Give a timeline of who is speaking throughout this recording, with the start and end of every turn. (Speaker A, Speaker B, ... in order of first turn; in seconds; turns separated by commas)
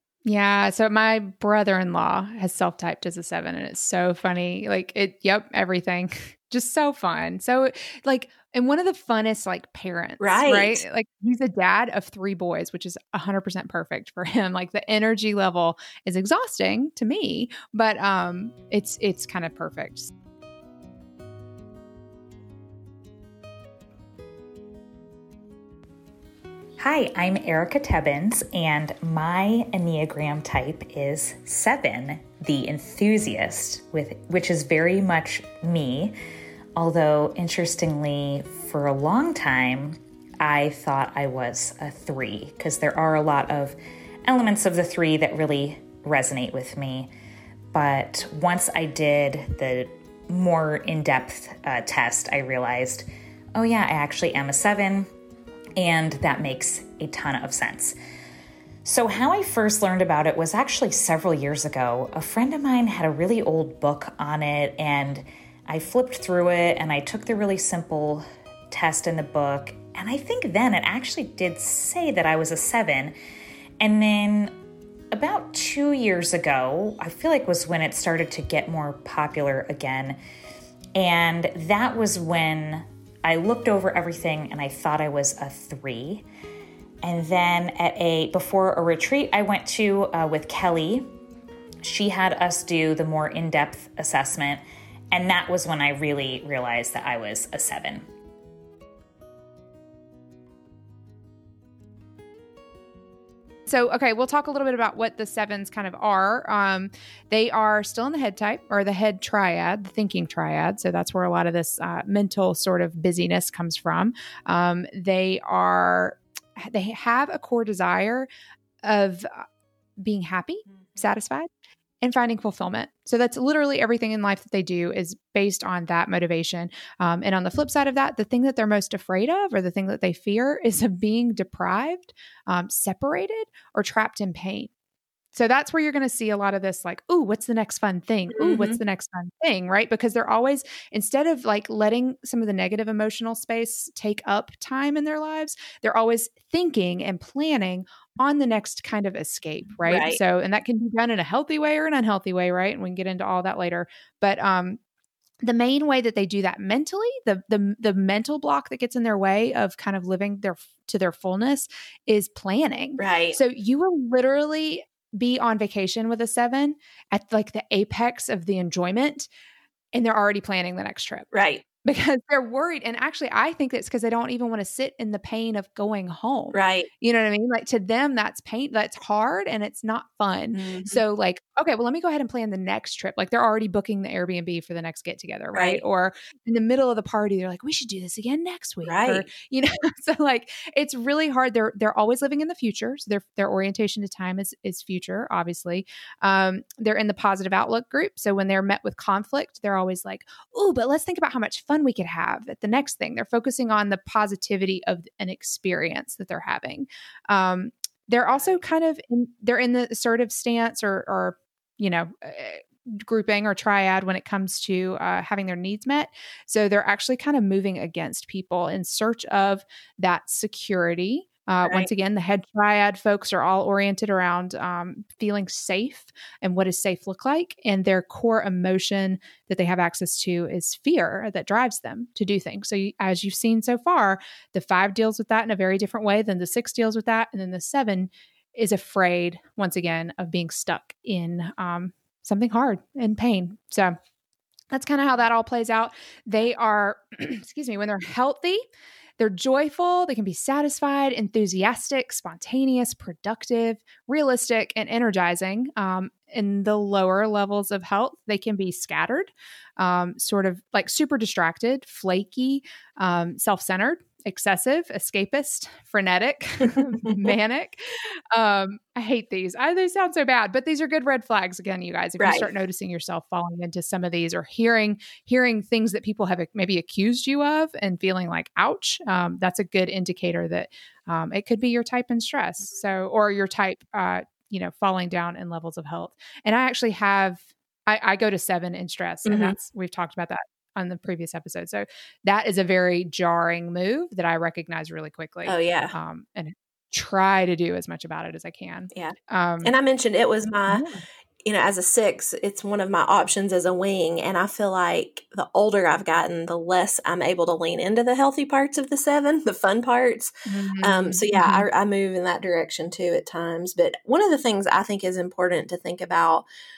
Speaker A: 0.2-20.1, Speaker B: 10.2-10.8, Speaker C: 26.8-36.1, Speaker C: 36.8-47.1, Speaker C: 47.7-55.1, Speaker C: 55.8-58.0, Speaker C: 58.8-73.1, Speaker C: 73.8-74.6, Speaker C: 75.1-80.2, Speaker C: 81.0-86.2, Speaker C: 87.0-91.1, Speaker C: 91.8-98.0, Speaker A: 103.7-118.3, Speaker A: 118.8-119.5, Speaker A: 120.0-121.5, Speaker B: 120.8-121.1, Speaker A: 122.0-134.7, Speaker A: 135.3-154.8, Speaker B: 138.3-138.8, Speaker B: 149.8-150.2, Speaker A: 155.4-169.3, Speaker B: 163.0-163.4, Speaker A: 169.9-171.3, Speaker B: 171.3-171.6, Speaker A: 171.8-243.9, Speaker B: 176.5-176.9, Speaker B: 180.5-181.0, Speaker B: 185.5-185.8, Speaker B: 188.8-189.3, Speaker B: 221.6-221.9, Speaker A: 244.7-248.6, Speaker A: 249.2-299.7, Speaker B: 266.6-267.3, Speaker B: 272.2-272.5, Speaker B: 289.2-289.6, Speaker B: 295.4-295.9, Speaker B: 298.9-300.8, Speaker A: 300.7-301.0, Speaker B: 301.4-316.5, Speaker A: 310.5-311.6